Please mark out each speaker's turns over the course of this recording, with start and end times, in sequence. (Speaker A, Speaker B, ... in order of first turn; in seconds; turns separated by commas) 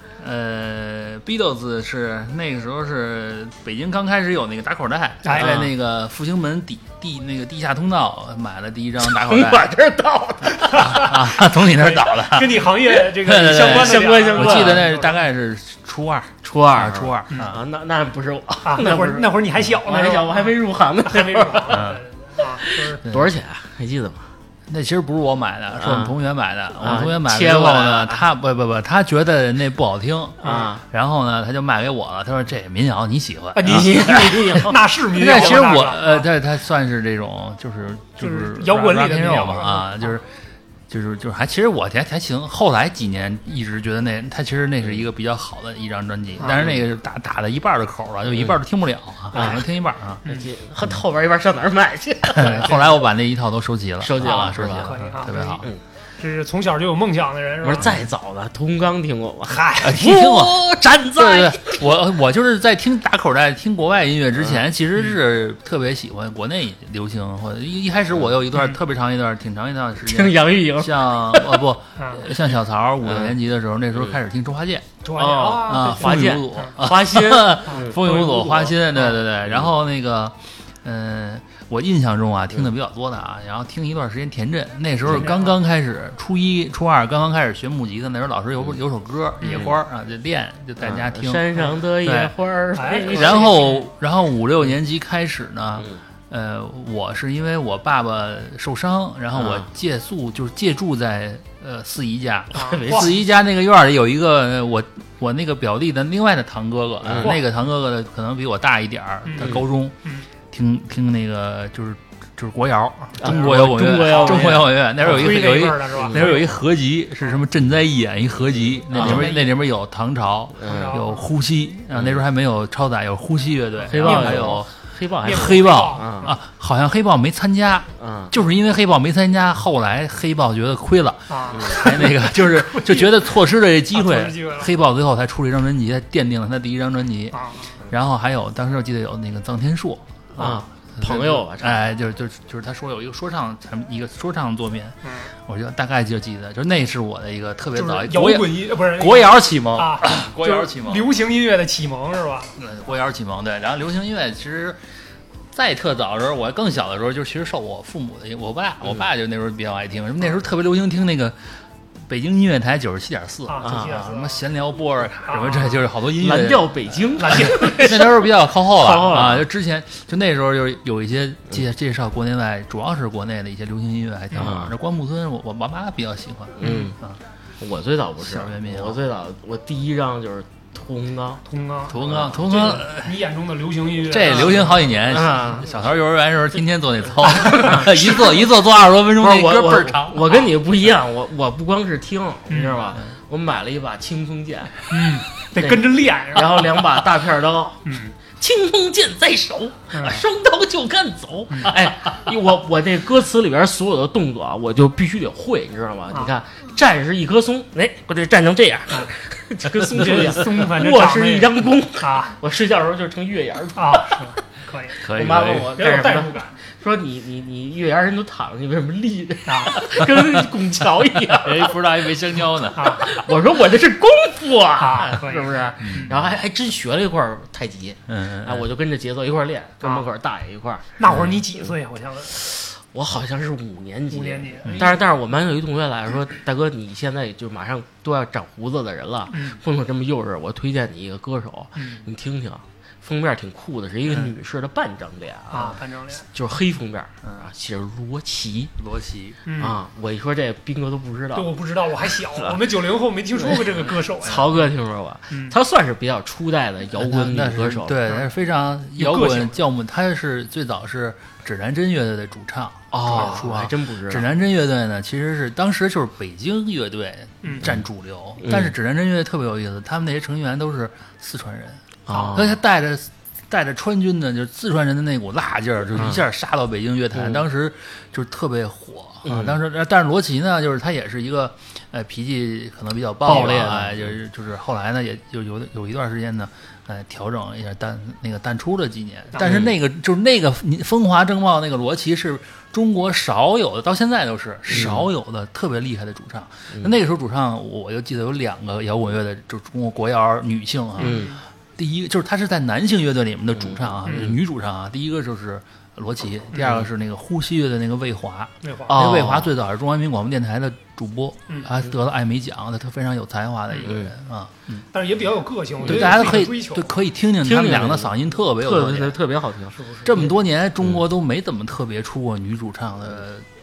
Speaker A: 0.2-9.7, Speaker B: 5.2-5.5, Speaker C: 5.3-5.7, Speaker C: 9.0-11.1, Speaker B: 10.6-15.2, Speaker A: 10.8-17.6, Speaker C: 13.5-14.9, Speaker C: 16.4-21.9, Speaker B: 18.6-23.0, Speaker A: 21.7-22.0, Speaker C: 22.4-24.3, Speaker A: 24.7-34.4, Speaker C: 25.8-26.1, Speaker C: 26.8-28.2, Speaker B: 30.4-30.7, Speaker C: 30.4-30.8, Speaker B: 33.5-36.3, Speaker C: 33.6-35.6, Speaker A: 35.1-40.3, Speaker B: 38.2-40.1, Speaker A: 40.9-50.2, Speaker B: 46.4-46.7, Speaker C: 49.3-49.7, Speaker C: 50.2-52.8, Speaker A: 52.4-55.7, Speaker B: 52.4-53.1, Speaker C: 54.0-55.0, Speaker B: 54.2-55.6, Speaker B: 56.2-58.0, Speaker C: 57.6-61.9, Speaker B: 59.5-60.0, Speaker A: 59.8-74.9, Speaker C: 70.0-71.6, Speaker B: 72.0-72.3, Speaker C: 73.1-73.3, Speaker B: 75.0-76.7, Speaker C: 75.2-78.0, Speaker A: 75.7-92.3, Speaker B: 77.7-79.2, Speaker B: 85.1-85.6, Speaker C: 89.4-89.8, Speaker C: 90.8-93.6, Speaker B: 92.8-93.9, Speaker A: 93.1-110.0, Speaker C: 99.4-99.7, Speaker B: 102.5-103.2, Speaker C: 102.5-103.1, Speaker C: 107.0-107.3, Speaker B: 109.2-110.3, Speaker A: 110.5-124.7, Speaker C: 113.2-115.3, Speaker B: 113.2-116.6, Speaker C: 115.9-116.2, Speaker B: 118.9-119.6, Speaker C: 118.9-119.3, Speaker C: 120.6-121.0, Speaker B: 120.7-121.3, Speaker B: 123.9-124.6, Speaker C: 123.9-126.3, Speaker B: 125.2-126.4, Speaker A: 125.2-137.4, Speaker C: 128.0-128.3, Speaker B: 131.3-133.3, Speaker B: 133.9-134.7, Speaker B: 137.3-137.8, Speaker A: 137.9-151.1, Speaker C: 140.4-141.8, Speaker B: 145.0-145.3, Speaker B: 147.8-152.5, Speaker A: 152.6-154.8, Speaker A: 155.5-161.5, Speaker A: 162.1-177.2, Speaker B: 163.5-164.4, Speaker C: 163.6-164.0, Speaker B: 165.2-165.8, Speaker C: 166.2-169.5, Speaker B: 167.2-167.8, Speaker C: 174.3-174.7, Speaker C: 176.6-177.0, Speaker B: 176.6-176.9, Speaker C: 177.6-181.4, Speaker A: 178.2-179.0, Speaker B: 181.5-184.9, Speaker A: 181.9-183.1, Speaker A: 184.1-190.5, Speaker C: 185.1-185.7, Speaker C: 187.4-188.2, Speaker B: 187.5-187.8, Speaker C: 189.2-194.8, Speaker B: 192.5-192.8, Speaker B: 194.9-197.0, Speaker C: 195.6-214.2, Speaker B: 197.8-198.2, Speaker B: 199.9-200.2, Speaker B: 209.9-212.3, Speaker B: 213.8-216.6, Speaker A: 215.0-215.7, Speaker C: 215.1-221.7, Speaker B: 219.5-219.8, Speaker A: 221.4-223.1, Speaker B: 222.8-223.1, Speaker C: 223.0-231.3, Speaker B: 224.8-226.1, Speaker A: 225.8-226.2, Speaker A: 228.1-228.7, Speaker B: 231.0-232.3, Speaker C: 232.3-245.8, Speaker B: 234.1-235.0, Speaker B: 239.3-239.6, Speaker B: 241.8-242.1, Speaker B: 245.5-246.3, Speaker C: 246.3-248.7, Speaker A: 248.8-249.4, Speaker B: 249.5-249.8, Speaker C: 249.6-251.5, Speaker B: 251.3-254.5, Speaker C: 252.3-252.6, Speaker C: 253.4-258.0, Speaker B: 255.3-255.6, Speaker A: 257.0-314.9, Speaker B: 259.0-259.6, Speaker C: 262.9-264.3, Speaker B: 267.4-267.7, Speaker C: 268.4-268.7, Speaker C: 272.1-272.6, Speaker B: 272.1-272.4, Speaker C: 276.0-276.2, Speaker C: 277.1-277.4, Speaker C: 279.2-279.6, Speaker C: 283.3-284.1, Speaker B: 289.4-289.6, Speaker C: 289.4-289.8, Speaker C: 294.7-295.1, Speaker B: 301.0-301.4, Speaker C: 301.0-301.4, Speaker C: 303.6-304.4, Speaker B: 306.5-306.9, Speaker B: 308.6-309.0, Speaker C: 308.9-309.5, Speaker B: 314.9-316.9, Speaker A: 315.8-319.2, Speaker C: 317.4-320.3, Speaker B: 319.8-320.3, Speaker A: 320.0-323.5